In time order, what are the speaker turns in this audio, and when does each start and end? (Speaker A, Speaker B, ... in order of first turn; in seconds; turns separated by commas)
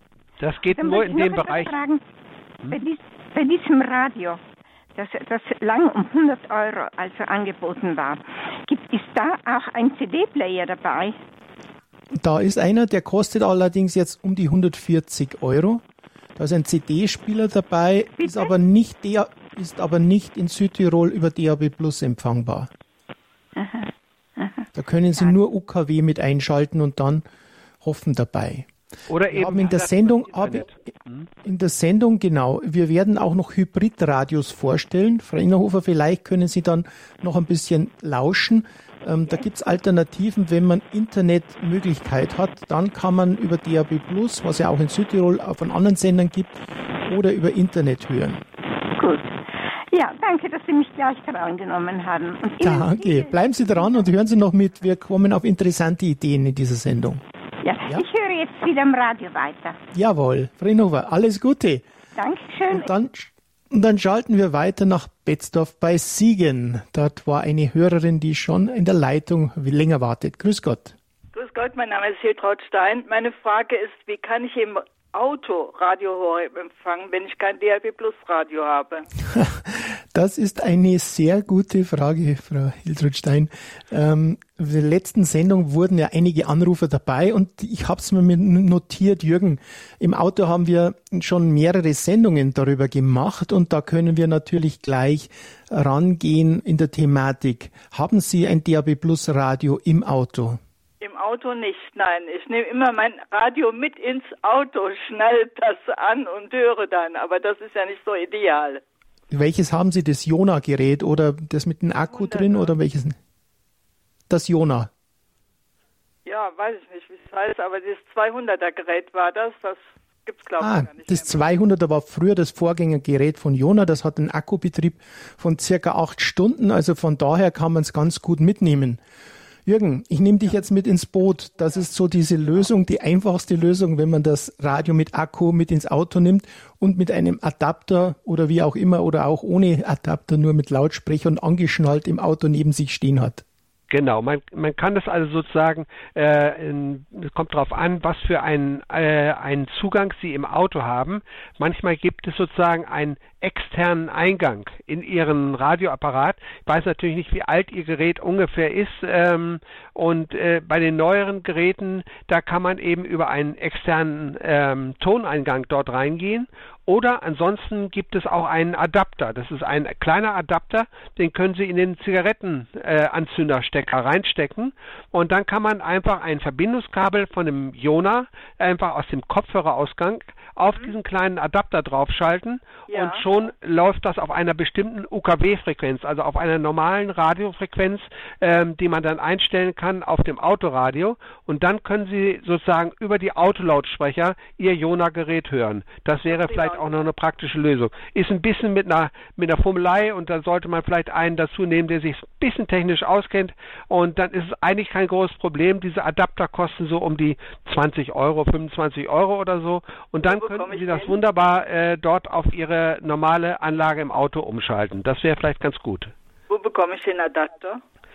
Speaker A: 0.4-1.7, Speaker B: 0.7-2.0, Speaker B: 2.7-4.4, Speaker B: 4.9-11.2, Speaker C: 12.2-15.8, Speaker C: 16.4-22.7, Speaker B: 18.2-18.5, Speaker B: 23.6-23.8, Speaker C: 24.7-27.2, Speaker C: 27.8-28.7, Speaker A: 29.1-31.3, Speaker C: 29.3-30.7, Speaker C: 31.4-48.4, Speaker B: 49.0-54.0, Speaker C: 52.6-57.2, Speaker B: 57.6-59.8, Speaker C: 59.9-61.8, Speaker B: 62.1-62.9, Speaker C: 62.7-70.9, Speaker D: 71.3-79.1, Speaker C: 79.3-100.6, Speaker D: 101.0-108.8, Speaker C: 109.3-113.2, Speaker D: 112.1-112.7, Speaker C: 114.3-114.9, Speaker D: 116.2-121.3, Speaker C: 120.6-129.0, Speaker C: 129.7-143.4, Speaker A: 143.9-216.1, Speaker D: 182.9-183.2, Speaker D: 196.3-197.0, Speaker D: 210.2-211.2, Speaker D: 216.5-217.8